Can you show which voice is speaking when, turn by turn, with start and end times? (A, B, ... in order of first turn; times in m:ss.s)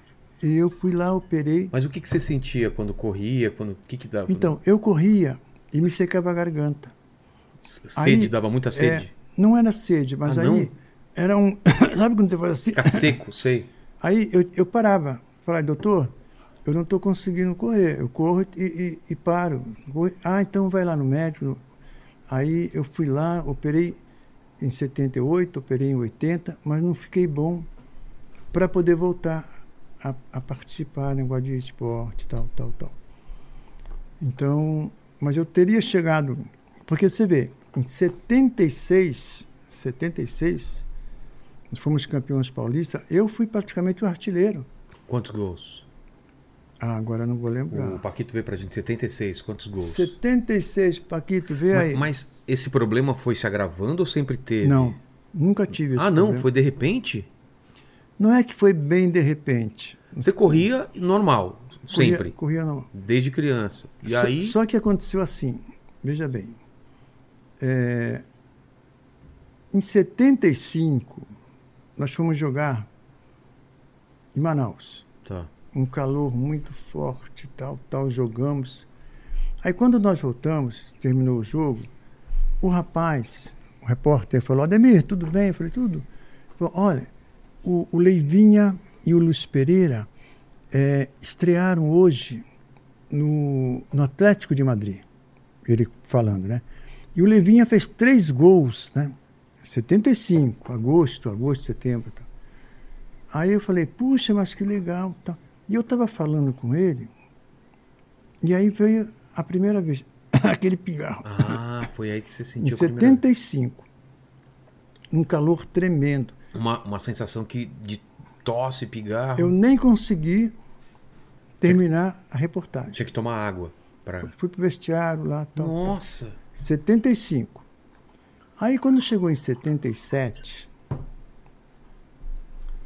0:00.4-0:01.7 A
0:01.7-0:04.5 B
0:04.3-0:06.9 A
0:07.6-0:09.1 B
0:08.0-0:13.2 A
0:10.2-0:10.7 B
0:12.7-0:13.7 B
0:14.0-0:21.6 A
0:22.3-0:24.0 A
0:24.6-0:27.7 A
0:28.5-0:29.5 A
0:30.0-0:33.0 A
0:34.2-0:40.8 A
0:41.7-0:44.7 A
0:45.1-0:45.8 B
0:46.8-0:48.0 A
0:47.7-0:50.1 B
0:49.8-0:52.1 A
0:51.7-0:55.0 B
0:54.6-0:56.5 A
0:55.9-0:57.3 B
0:58.2-1:00.6 A
1:00.2-1:02.4 B
1:01.9-1:02.9 A
1:02.9-1:04.6 B
1:04.0-1:06.6 A
1:07.6-1:08.2 A
1:09.7-1:11.3 A
1:12.0-1:12.9 A
1:14.4-1:15.1 A
1:15.7-1:18.9 A
1:19.6-1:21.9 A
1:22.6-1:26.1 A
1:26.6-1:27.1 A
1:27.6-1:30.1 A
1:30.7-1:32.4 A
1:33.1-1:35.0 A
1:35.6-1:36.6 A
1:37.2-1:42.3 A
1:43.3-1:47.1 A
1:48.4-1:51.6 A
1:51.2-1:53.2 B
1:52.6-1:53.9 A
1:55.1-1:56.4 A
1:56.5-1:59.6 B
1:59.4-2:00.6 A
2:01.6-2:03.0 A
2:02.9-2:04.3 B
2:04.2-2:06.0 A
2:05.6-2:06.4 B
2:06.5-2:07.6 A
2:08.6-2:10.7 A